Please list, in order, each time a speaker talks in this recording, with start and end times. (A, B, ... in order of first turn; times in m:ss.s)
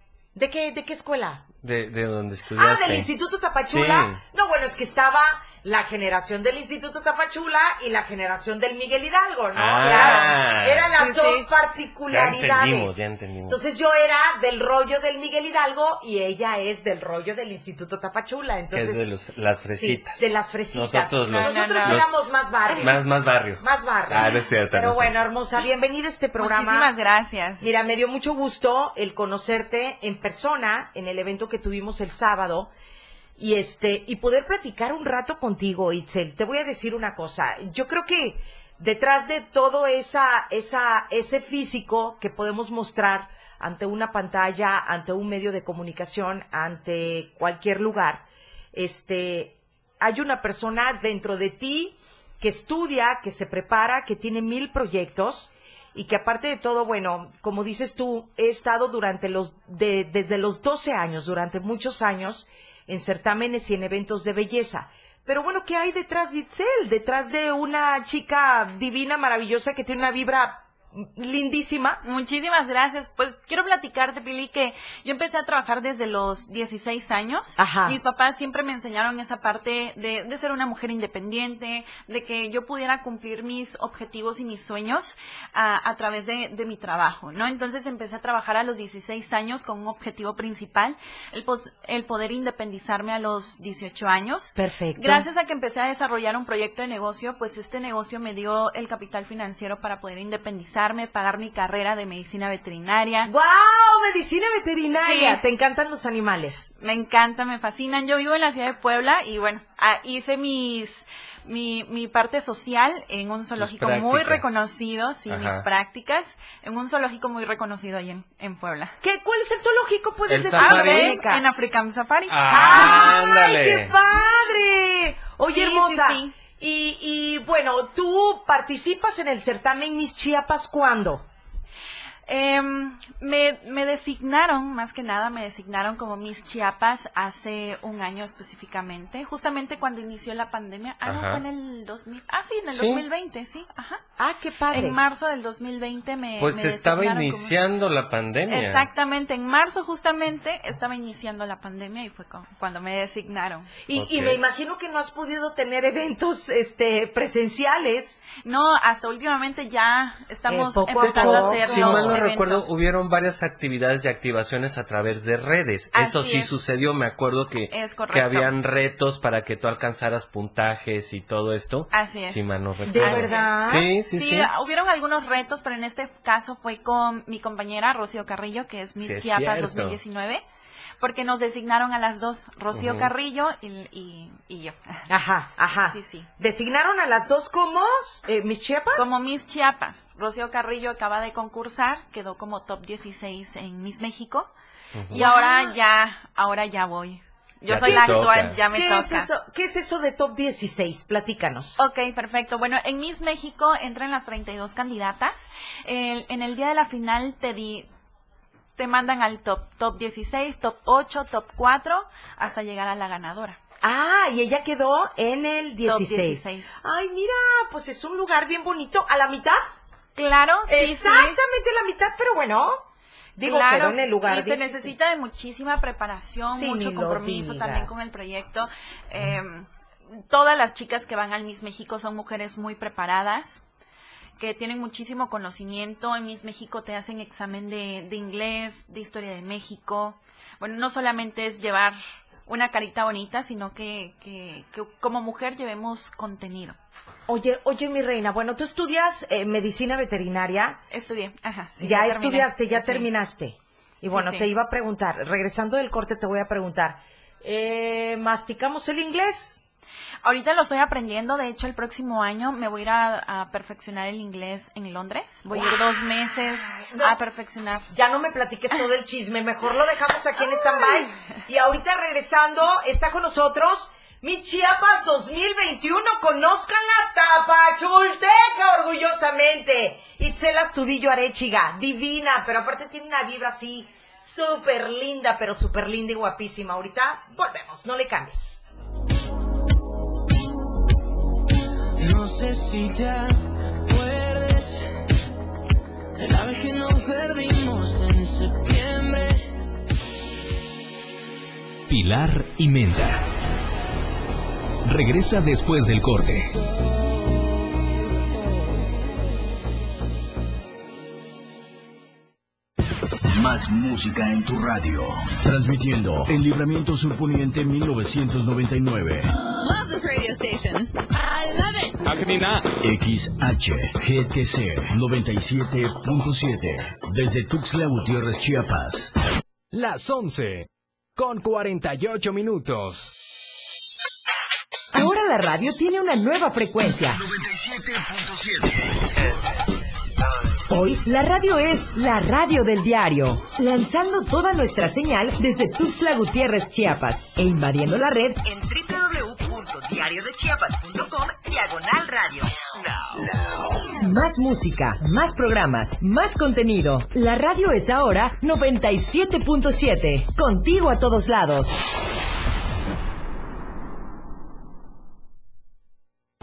0:00.3-0:01.4 A
0:01.6-0:03.1 B
0:02.6-0:13.0 A
0:03.6-0:04.2 B
0:09.5-0:10.9 B
0:09.8-0:10.3 C
0:11.0-0:11.5 C
0:12.1-0:13.6 B
0:13.5-0:19.0 A
0:18.7-0:22.1 B
0:19.7-0:23.0 A
0:21.3-0:22.0 C
0:22.8-0:25.1 B
0:23.6-0:26.9 A
0:26.4-0:27.6 C
0:27.6-0:32.7 A
0:33.4-1:12.0 A
1:12.0-1:43.3 C
1:17.6-1:18.0 A
1:34.6-1:35.2 A
1:43.2-1:46.7 A
1:45.0-1:45.4 C
1:46.8-1:59.0 C
1:53.6-1:54.5 B
1:55.3-1:55.6 B
1:59.0-2:01.4 A
2:00.3-2:01.2 B
2:00.5-2:03.1 C
2:02.3-2:03.9 B
2:02.4-2:11.2 A
2:05.5-2:06.3 C
2:12.3-2:24.0 C
2:21.0-2:21.4 B
2:22.7-2:23.0 B
2:24.2-2:25.0 A
2:24.7-2:27.5 C
2:26.4-2:28.8 B
2:28.5-2:33.7 C
2:33.8-2:38.2 A
2:33.9-2:34.4 B
2:38.3-2:42.7 C
2:40.5-2:42.2 A
2:41.0-2:54.5 B
2:45.9-2:46.6 C
2:47.7-2:48.5 C
2:51.9-3:00.4 C
2:52.8-2:53.9 A
2:59.0-3:00.0 B
3:01.0-3:05.0 C
3:02.7-3:03.1 B
3:05.1-3:09.1 A
3:05.9-3:06.3 C
3:08.9-3:14.5 C
3:14.9-3:15.2 B
3:15.1-3:19.3 C
3:15.2-3:15.6 A
3:17.7-3:18.6 B
3:17.8-3:21.8 A
3:21.8-3:27.9 C
3:28.8-3:33.6 C
3:33.8-3:39.6 A
3:35.8-3:36.8 C
3:40.1-3:41.4 C
3:40.7-3:42.8 A
3:43.4-3:44.9 A
3:43.4-3:49.7 C
3:46.5-3:48.0 A
3:50.3-3:53.6 C
3:54.4-4:06.8 C
4:07.3-4:10.8 A
4:10.9-4:13.1 C
4:11.8-4:19.6 A
4:14.1-4:14.5 C
4:20.2-4:27.9 C
4:25.5-4:26.0 A
4:26.8-4:27.1 A
4:27.9-4:48.6 A
4:52.0-4:54.9 D
4:56.2-4:59.5 D
5:01.9-5:03.2 E
5:04.8-5:06.5 E
5:13.3-5:19.3 F
5:19.5-5:21.9 G
5:22.1-5:22.6 H
5:22.8-5:29.1 F
5:29.7-5:33.1 H
5:34.9-5:37.2 I
5:37.1-5:39.1 F
5:40.7-5:52.9 I
5:53.9-6:01.8 I